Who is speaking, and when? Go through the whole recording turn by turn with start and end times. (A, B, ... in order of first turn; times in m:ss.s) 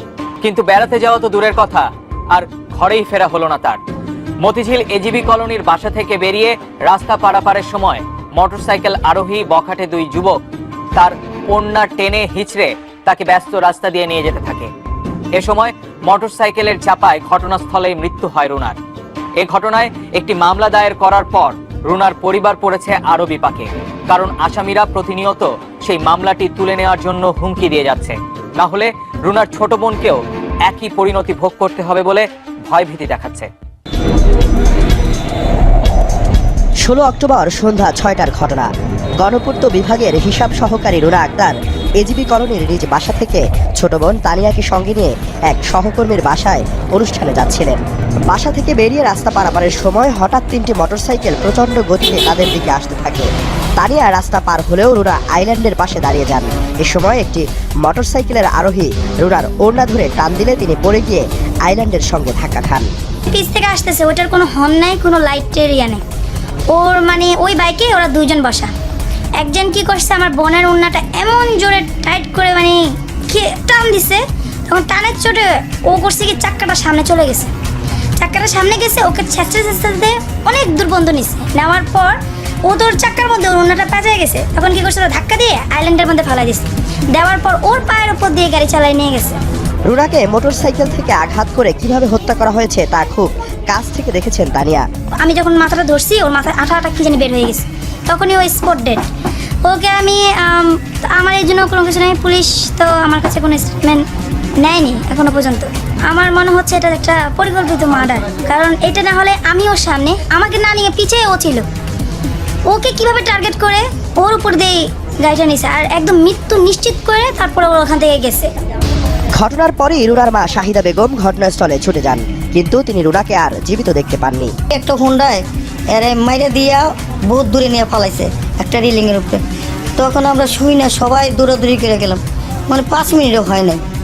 0:00.4-0:03.8 A
0:04.4-0:10.4 A
0:11.0-0:14.7 A
0:15.3-0:18.8 A
0:19.4-0:33.5 A
0:36.8-1:02.9 B
1:03.3-1:06.0 C
1:06.7-1:08.7 C
1:09.4-1:12.8 C
1:13.3-1:17.5 C
1:18.2-1:22.1 C
1:22.7-1:29.4 C
1:29.9-1:34.9 B
1:35.2-1:39.0 C
1:39.7-1:44.0 C
1:44.6-1:51.7 C
1:52.7-1:58.5 C
1:59.4-2:04.5 B
2:04.7-2:09.4 D
2:10.0-2:13.8 D